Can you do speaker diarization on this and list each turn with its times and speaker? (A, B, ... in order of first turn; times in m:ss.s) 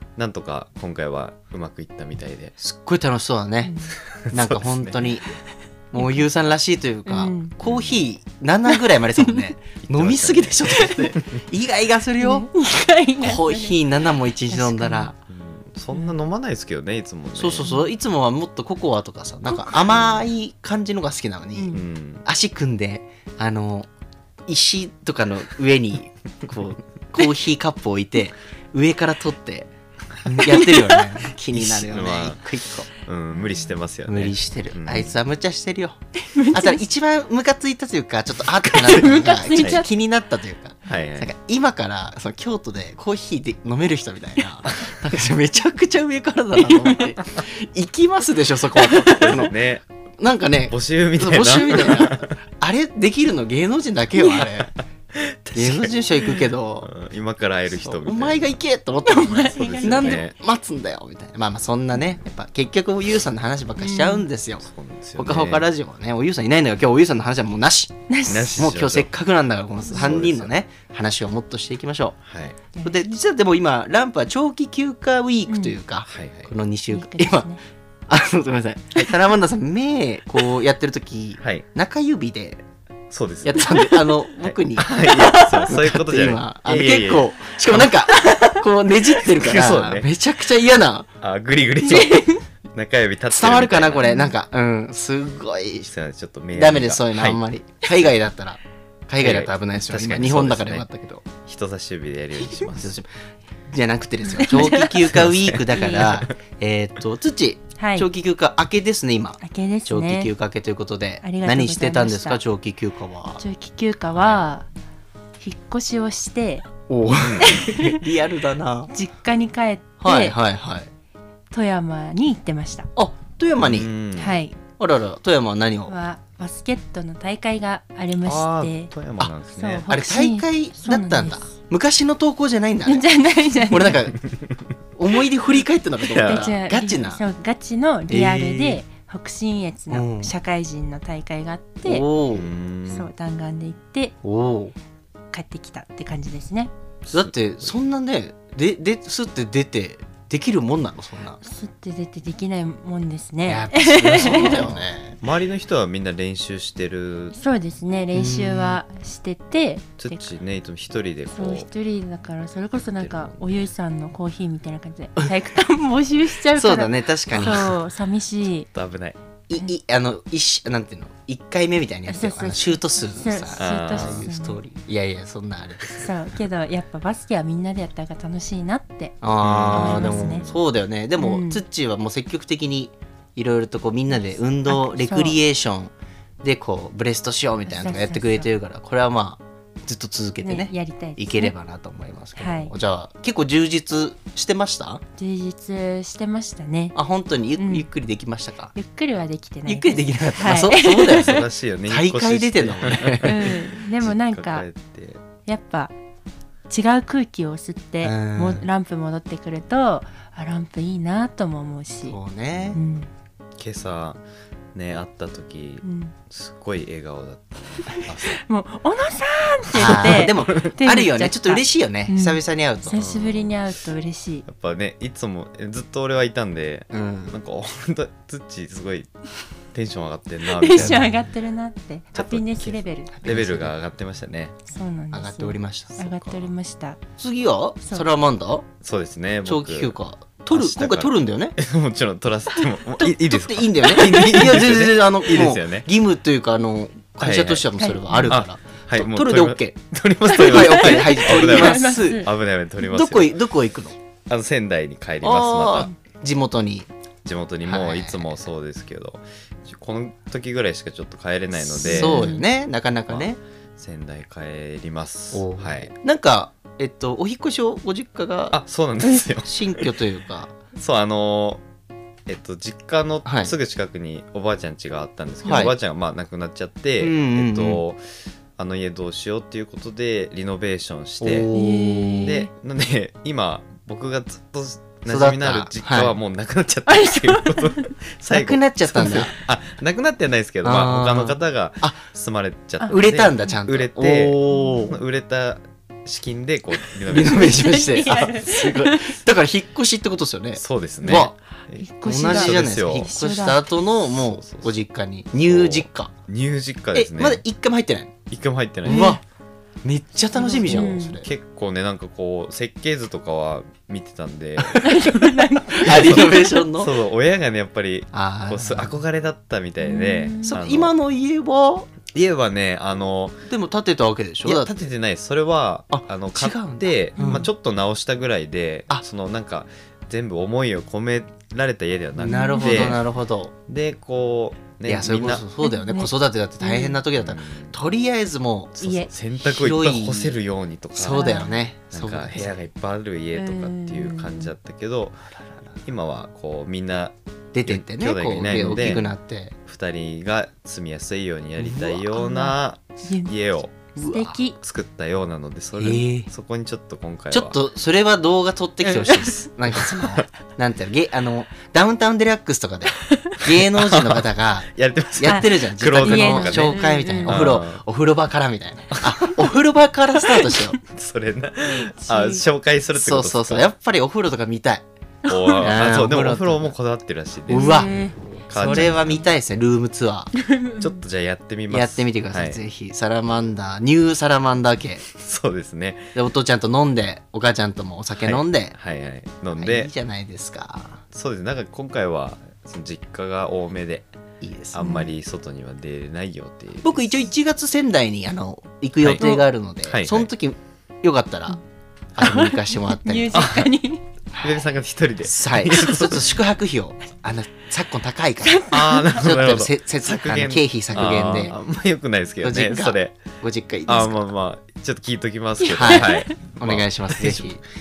0:00.2-0:02.5 A
0:02.6-0:03.8 B
0:03.6-0:04.0 C
0:04.0-0:05.2 A
0:04.3-0:05.2 B
0:05.9-0:12.5 B
0:06.0-0:06.3 C
0:07.0-0:07.5 C
0:07.6-0:08.0 A
0:09.8-0:11.4 A
0:12.2-0:15.1 C
0:13.2-0:15.1 B
0:15.3-0:17.7 A
0:17.3-0:23.9 B
0:17.6-0:17.9 C
0:19.9-0:20.2 A
0:21.5-0:21.8 C
0:21.7-0:22.2 A
0:24.5-0:29.7 B
0:30.3-0:32.9 B
0:30.5-0:31.1 C
0:31.5-0:35.2 A
0:34.0-0:49.5 B
0:36.3-0:36.8 C
0:38.7-0:39.9 C
0:39.6-0:39.8 A
0:40.8-0:41.3 A
0:46.6-0:47.1 C
0:48.8-0:49.4 C
0:49.0-0:49.8 A
0:50.2-0:54.7 B
0:50.7-0:52.3 A
0:54.3-0:55.9 A
0:55.5-0:56.9 B
0:56.8-0:58.6 A
0:57.8-1:04.6 B
0:59.0-1:00.2 C
0:59.3-1:00.4 A
1:03.8-1:04.2 C
1:04.6-1:05.6 A
1:05.2-1:08.0 B
1:08.1-1:08.6 C
1:08.2-1:09.1 A
1:08.5-1:12.2 B
1:09.9-1:10.5 A
1:12.2-1:12.6 A
1:12.7-1:13.1 C
1:12.8-1:17.5 B
1:15.5-1:15.8 C
1:16.1-1:16.5 A
1:16.9-1:17.6 C
1:18.1-1:22.6 B
1:23.1-1:27.9 A
1:23.4-1:31.1 B
1:29.3-1:30.1 A
1:31.2-1:34.1 A
1:31.9-1:32.4 C
1:33.3-1:35.9 B
1:34.0-1:34.3 C
1:35.9-1:37.4 A
1:36.5-1:41.2 B
1:39.2-1:40.8 A
1:41.4-1:43.0 A
1:42.4-1:43.1 B
1:43.7-1:53.4 B
1:44.2-1:45.1 C
1:45.1-1:46.2 A
1:45.7-1:46.2 C
1:47.8-1:48.1 C
1:49.4-1:50.3 C
1:51.2-1:52.4 C
1:53.4-1:54.6 C
1:54.1-1:54.4 A
1:55.4-1:56.7 C
1:56.9-1:58.9 B
1:57.1-1:57.6 A
1:57.4-1:58.0 C
1:58.9-2:00.4 C
2:00.0-2:00.9 B
2:01.5-2:02.9 C
2:03.0-2:03.9 B
2:03.6-2:04.4 A
2:04.2-2:04.6 C
2:04.6-2:05.9 B
2:05.9-2:08.9 C
2:08.2-2:09.8 A
2:09.5-2:11.5 C
2:09.9-2:13.1 B
2:12.8-2:14.0 C
2:13.6-2:14.2 B
2:15.0-2:17.2 B
2:16.1-2:16.5 A
2:16.1-2:22.0 C
2:18.1-2:18.8 B
2:19.9-2:20.3 B
2:21.8-2:22.5 B
2:22.3-2:23.1 A
2:22.9-2:24.1 C
2:24.2-2:24.7 B
2:25.3-2:26.7 C
2:27.1-2:31.4 B
2:31.4-2:34.7 C
2:33.4-2:35.2 B
2:34.1-2:37.4 A
2:37.3-2:40.2 C
2:38.1-2:38.8 B
2:40.0-2:41.7 A
2:41.3-2:48.7 C
2:43.0-2:43.7 A
2:46.5-2:47.8 B
2:48.7-2:49.2 A
2:49.5-2:56.1 B
2:52.1-2:54.6 C
2:53.6-2:54.3 A
2:55.9-2:59.2 C
2:59.2-3:15.0 B
2:59.4-3:00.6 A
2:59.7-3:00.5 C
3:01.2-3:01.6 C
3:04.6-3:05.4 C
3:07.7-3:08.5 C
3:10.4-3:11.5 C
3:12.4-3:12.7 C
3:15.2-3:17.0 C
3:16.9-3:18.7 B
3:17.6-3:17.9 C
3:18.7-3:21.4 C
3:19.6-3:23.5 B
3:21.1-3:25.2 A
3:23.2-3:24.6 C
3:25.5-3:25.9 C
3:26.7-3:32.2 C
3:28.0-3:28.7 B
3:32.0-3:32.8 B
3:32.7-3:33.1 C
3:33.6-3:34.2 A
3:34.7-3:38.4 A
3:35.8-3:36.1 C
3:37.8-3:44.4 C
3:39.7-3:43.0 B
3:39.8-3:40.5 A
3:42.9-3:43.5 A
3:44.4-3:49.1 A
3:46.9-3:47.4 B
3:49.7-3:51.2 A
3:50.4-3:53.2 C
3:50.7-3:51.2 B
3:52.1-3:54.6 A
3:53.2-3:53.7 B
3:54.7-3:57.0 C
3:55.1-3:56.1 B
3:56.0-3:56.5 A
3:57.2-3:58.7 B
3:58.8-4:00.0 A
3:59.4-4:01.6 B
4:00.5-4:05.9 A
4:03.2-4:09.8 B
4:04.0-4:04.4 C
4:07.2-4:07.7 A
4:07.8-4:08.4 C
4:08.3-4:13.4 A
4:10.2-4:12.3 C
4:10.3-4:12.3 B
4:12.8-4:14.0 B
4:14.3-4:15.9 A
4:15.2-4:16.9 B
4:17.2-4:22.4 A
4:17.6-4:18.4 B
4:21.6-4:23.4 B
4:21.8-4:22.4 C
4:23.1-4:25.9 A
4:25.3-4:28.6 B
4:28.5-4:29.9 A
4:29.3-4:30.5 B
4:30.7-4:31.6 A
4:32.3-4:38.0 A
4:33.2-4:33.5 B
4:35.4-4:35.7 B
4:37.0-4:37.8 B
4:38.6-4:41.5 A
4:41.2-4:42.4 B
4:41.5-4:42.5 C
4:42.2-4:58.0 A
4:45.1-4:46.1 B
4:46.9-4:47.9 C
4:48.3-4:49.3 B
4:50.6-4:52.0 B
4:52.8-4:55.0 B
4:54.5-4:54.9 C
4:57.1-5:01.4 B
4:57.2-4:59.2 C
5:00.6-5:03.1 A
5:01.7-5:03.7 C
5:02.0-5:06.1 B
5:04.0-5:04.8 A
5:05.4-5:07.4 A
5:06.9-5:08.1 B
5:08.3-5:09.1 A
5:08.8-5:09.2 B
5:08.9-5:09.2 C
5:09.8-5:11.3 B
5:10.3-5:11.2 C
5:10.6-5:14.9 A
5:14.6-5:16.9 B
5:14.8-5:16.6 C
5:15.8-5:20.9 A
5:18.1-5:19.0 B
5:19.8-5:20.6 C
5:20.4-5:21.9 B
5:22.1-5:23.4 A
5:23.5-5:24.7 B
5:24.4-5:33.0 A
5:25.9-5:27.4 B
5:27.2-5:27.4 C
5:32.2-5:33.5 B
5:32.3-5:33.0 C
5:33.7-5:35.4 A
5:34.9-5:40.4 B
5:35.6-5:37.0 C
5:37.1-5:37.8 A
5:38.8-5:39.1 C
5:39.1-5:45.2 A
5:40.9-5:42.6 B
5:41.1-5:41.6 C
5:43.3-5:44.5 C
5:45.4-5:45.7 B
5:45.8-5:49.1 A
5:47.5-5:49.6 B
5:48.6-5:49.0 C
5:49.6-5:53.7 A
5:51.6-5:52.0 B
5:52.1-5:53.3 C
5:54.0-5:54.6 C
5:54.0-5:54.4 B
5:54.6-5:57.6 A
5:55.8-5:56.3 B
5:57.3-6:10.8 B
5:58.9-5:59.3 C
5:59.9-6:00.2 A
6:03.0-6:03.4 C
6:03.8-6:07.8 A
6:05.2-6:07.5 C
6:09.0-6:09.3 A
6:10.3-6:10.7 C
6:10.9-6:13.7 A
6:12.0-6:12.4 C
6:12.9-6:14.8 B
6:15.2-6:15.7 C
6:15.3-6:19.3 A
6:15.6-6:16.7 B
6:17.5-6:17.9 B
6:17.5-6:19.0 C
6:18.5-6:20.3 B
6:20.3-6:21.0 C
6:20.8-6:22.6 A
6:21.7-6:25.1 B
6:25.1-6:26.1 A
6:26.1-6:28.8 B
6:28.2-6:29.9 A
6:29.6-6:31.0 B
6:31.1-6:34.1 A
6:34.4-6:34.9 B
6:34.7-6:37.2 A
6:34.8-6:35.1 C
6:36.8-6:41.6 B
6:39.0-6:40.3 A
6:39.2-6:39.4 C
6:42.2-6:43.6 B
6:42.2-6:44.0 C
6:43.3-6:43.7 A
6:44.3-6:44.6 B
6:44.4-6:46.4 A
6:45.2-6:51.6 B
6:48.4-6:49.2 C
6:48.7-6:53.2 A
6:51.2-6:51.5 C
6:52.4-6:54.3 B
6:53.9-6:57.5 A
6:55.6-6:56.3 C
6:55.7-6:57.6 B